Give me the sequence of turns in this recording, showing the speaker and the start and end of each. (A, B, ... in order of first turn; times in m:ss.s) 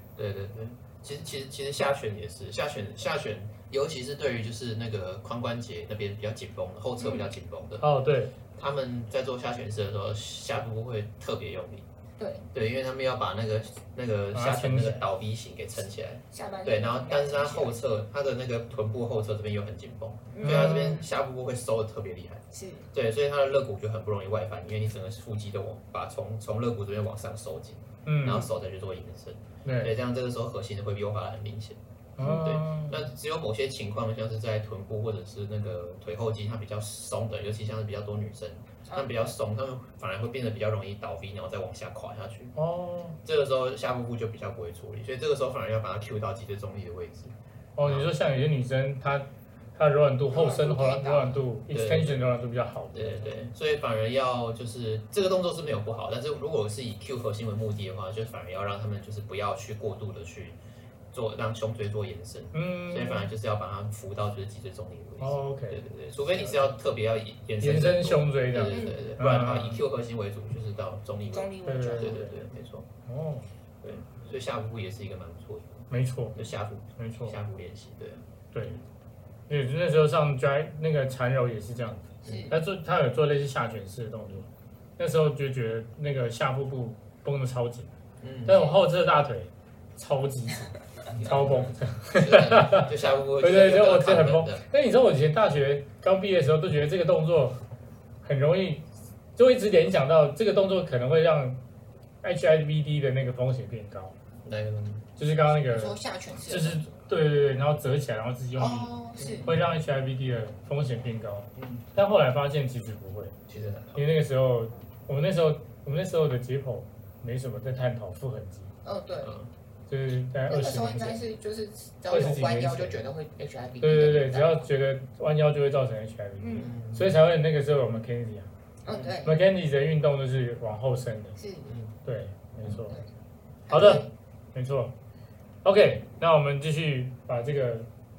0:00.2-0:07.9 A
0:07.0-0:07.3 B
0:07.8-0:08.3 C
0:08.6-0:11.9 A
0:12.2-0:12.4 B
0:12.5-0:42.6 A
0:14.3-0:15.0 C
0:16.3-0:17.8 B
0:20.3-0:21.1 B
0:20.4-0:21.0 C
0:22.5-0:22.9 B
0:28.1-0:28.4 C
0:29.6-0:30.0 C
0:32.2-0:33.0 C
0:38.9-0:39.3 B
0:42.6-0:43.2 C
0:43.2-0:48.1 A
0:47.8-0:53.3 C
0:50.3-0:51.4 B
0:51.7-0:52.2 A
0:52.9-1:00.6 A
1:01.1-1:12.9 A
1:02.5-1:03.3 C
1:05.2-1:05.9 C
1:07.6-1:09.8 C
1:08.6-1:09.1 B
1:11.3-1:12.3 B
1:11.6-1:12.4 C
1:13.1-1:13.5 C
1:13.8-1:18.8 A
1:15.9-1:16.4 C
1:17.0-1:17.4 C
1:18.5-1:18.8 C
1:19.5-1:37.6 C
1:22.2-1:22.6 B
1:22.2-1:22.5 A
1:28.2-1:28.7 A
1:28.5-1:28.8 B
1:31.1-1:34.6 A
1:38.2-1:41.6 C
1:42.2-1:44.2 C
1:44.4-1:45.0 A
1:45.2-1:48.9 C
1:45.5-1:47.0 B
1:48.6-1:49.5 B
1:49.2-1:49.7 A
1:49.4-1:53.4 C
1:51.6-1:51.8 A
1:53.5-1:54.0 A
1:54.0-1:58.7 C
1:58.8-1:59.4 B
1:59.2-1:59.5 A
1:59.9-2:01.2 C
2:00.5-2:04.6 B
2:02.1-2:03.0 C
2:03.8-2:08.5 C
2:06.4-2:06.7 B
2:06.6-2:07.2 A
2:08.8-2:09.4 B
2:08.9-2:09.2 A
2:09.2-2:11.4 C
2:11.4-2:11.7 B
2:11.7-2:11.9 A
2:12.0-2:13.0 C
2:13.7-2:14.1 B
2:13.7-2:15.0 C
2:15.6-2:17.9 C